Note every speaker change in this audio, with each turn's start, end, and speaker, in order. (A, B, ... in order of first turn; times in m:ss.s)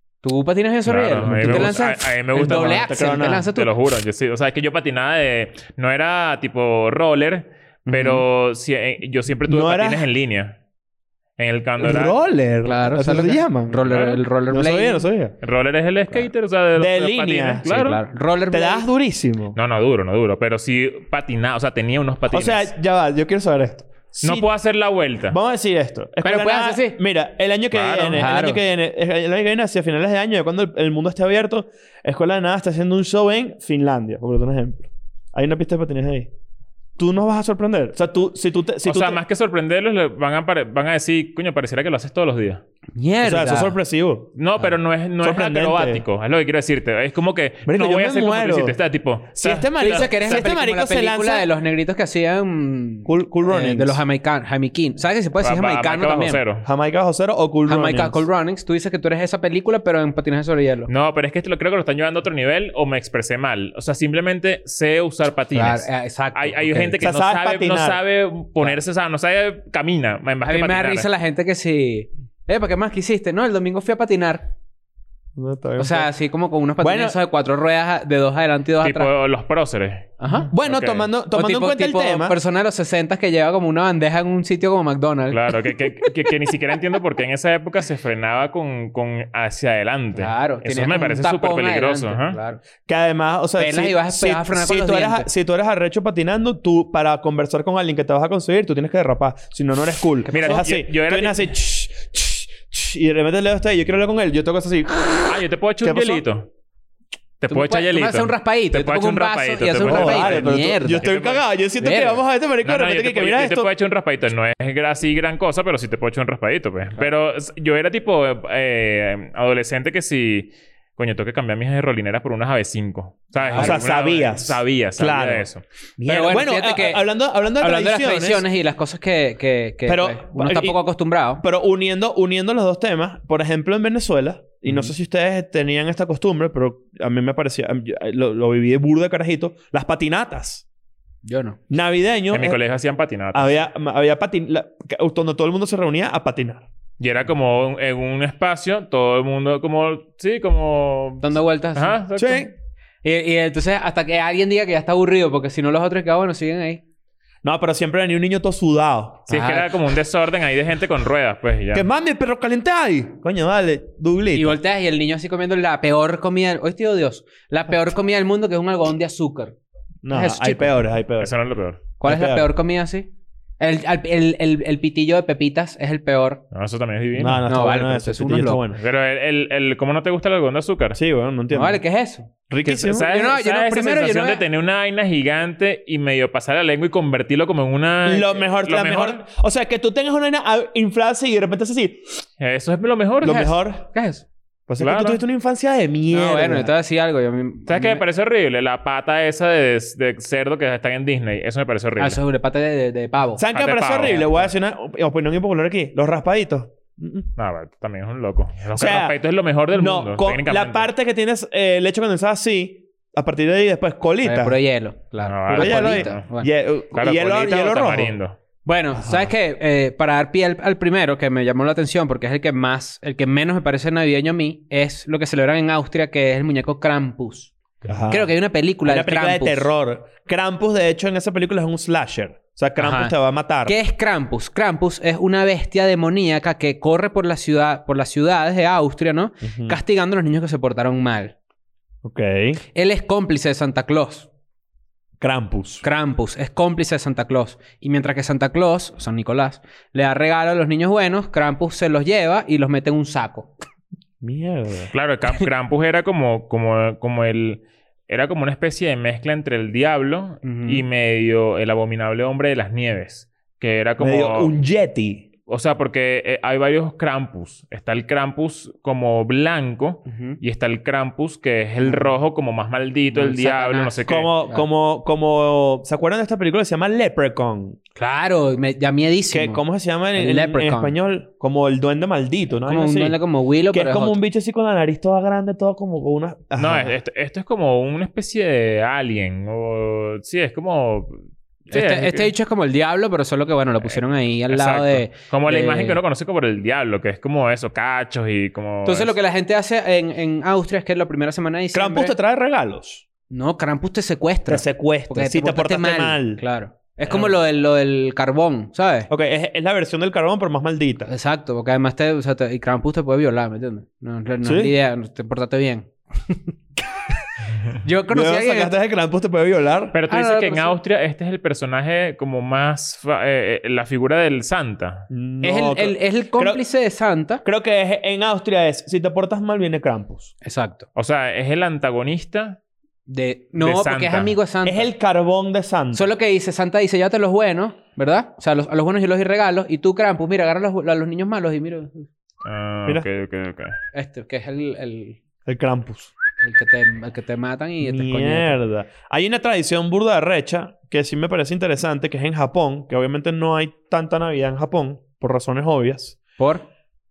0:00.2-0:03.7 A
0:00.8-0:02.9 B
0:01.2-0:03.5 C
0:03.5-0:10.6 B
0:07.9-0:08.2 A
0:09.5-0:10.1 C
0:11.4-0:12.1 B
0:11.8-0:13.8 C
0:12.6-0:15.0 A
0:13.8-0:14.2 B
0:14.5-0:15.3 C
0:15.4-0:18.0 B
0:16.8-0:17.6 C
0:17.6-0:18.9 A
0:18.5-0:19.6 C
0:19.5-0:22.7 B
0:22.3-0:24.5 C
0:24.2-0:25.4 B
0:25.3-0:36.3 C
0:26.2-0:27.0 A
0:27.7-0:28.3 B
0:28.2-0:28.6 A
0:37.0-0:39.2 C
0:38.8-0:42.6 B
0:42.9-0:43.8 A
0:43.2-0:44.3 C
0:44.4-0:50.4 B
0:45.2-0:46.0 C
0:47.6-0:48.8 C
0:49.4-0:51.4 C
0:49.8-0:56.4 A
0:53.0-0:54.0 C
0:55.4-0:56.6 B
0:56.6-0:58.2 C
0:57.6-1:00.9 A
1:00.9-1:11.1 B
1:05.5-1:07.0 A
1:07.0-1:08.0 C
1:10.4-1:14.5 A
1:15.4-1:16.1 C
1:15.8-1:19.1 A
1:16.8-1:17.2 C
1:18.8-1:21.1 B
1:20.2-1:20.5 A
1:20.5-1:22.4 C
1:21.3-1:25.5 A
1:25.3-1:32.4 B
1:30.2-1:32.6 A
1:32.8-1:46.2 C
1:33.6-1:35.3 A
1:40.3-1:41.5 B
1:45.3-1:46.5 B
1:47.4-1:51.4 B
1:47.5-1:51.1 A
1:49.8-1:53.7 C
1:51.8-1:52.2 A
1:52.6-2:05.6 B
2:03.4-2:03.8 A
2:03.6-2:08.4 C
2:06.0-2:07.0 A
2:07.6-2:11.4 A
2:09.8-2:10.8 C
2:11.4-2:20.6 C
2:14.6-2:14.9 A
2:21.2-2:21.6 A
2:21.7-2:22.6 C
2:22.3-2:23.5 B
2:23.3-2:26.6 C
2:27.0-2:32.5 B
2:31.2-2:32.0 A
2:32.2-2:32.5 C
2:33.0-2:36.8 A
2:37.4-2:39.3 C
2:39.3-2:41.9 B
2:39.3-2:39.7 A
2:41.7-2:44.6 C
2:44.3-2:49.6 A
2:50.0-2:51.3 C
2:50.1-2:50.8 A
2:51.2-2:51.8 B
2:52.0-2:56.4 A
2:52.0-2:52.5 C
2:56.5-2:57.4 B
2:57.2-2:58.8 C
2:57.5-2:58.6 A
2:58.8-3:01.0 B
3:00.9-3:01.8 C
3:01.5-3:02.3 A
3:02.5-3:03.1 C
3:02.7-3:09.2 B
3:02.9-3:04.4 A
3:08.0-3:12.2 C
3:12.4-3:13.5 B
3:13.2-3:13.8 C
3:13.8-3:14.2 A
3:14.7-3:16.7 C
3:14.8-3:15.2 B
3:16.1-3:18.0 A
3:17.7-3:22.2 B
3:22.0-3:23.4 A
3:23.4-3:27.3 C
3:23.5-3:24.2 B
3:24.0-3:24.5 A
3:27.4-3:30.9 B
3:28.7-3:29.2 C
3:29.7-3:34.6 C
3:34.2-3:36.5 A
3:35.2-3:36.3 B
3:35.5-3:38.1 C
3:36.9-3:38.4 B
3:38.6-3:47.5 A
3:38.9-3:39.3 C
3:47.8-3:48.3 C
3:48.1-3:49.7 A
3:48.8-3:53.7 C
3:52.8-3:53.1 A
3:53.6-4:01.3 A
3:59.4-3:59.8 C
4:02.0-4:02.6 C
4:02.7-4:04.3 A
4:05.2-4:05.8 C
4:05.8-4:13.5 A
4:14.2-4:14.9 C
4:14.9-4:24.5 B
4:20.4-4:20.8 A
4:24.0-4:25.2 C
4:25.5-4:34.3 B
4:30.1-4:30.4 A
4:31.8-4:32.1 A
4:33.1-4:34.6 A
4:34.1-4:37.8 C
4:38.0-4:39.6 A
4:39.3-4:43.2 C
4:40.1-4:40.9 A
4:42.6-4:44.2 A
4:43.7-4:46.9 C
4:46.6-4:52.3 B
4:51.7-4:56.0 A
4:53.8-4:59.1 B
4:58.8-5:02.1 A
5:01.7-5:03.0 C
5:03.3-5:09.1 A
5:04.5-5:06.4 C
5:09.1-5:11.1 C
5:11.1-5:16.5 A
5:14.4-5:14.7 C
5:17.8-5:18.8 A
5:18.1-5:20.0 C
5:19.9-5:25.1 B
5:20.1-5:20.8 A
5:25.1-5:26.6 C
5:25.4-5:27.4 A
5:27.4-5:30.3 C
5:30.4-5:30.9 A
5:31.0-5:32.6 B
5:33.1-5:34.9 A
5:33.6-5:34.3 B
5:34.6-5:36.0 C
5:35.9-5:42.1 A
5:42.4-5:43.8 B
5:43.9-5:45.2 A
5:45.4-5:46.1 C
5:46.4-5:48.6 A
5:47.8-5:56.2 C
5:56.4-5:56.6 A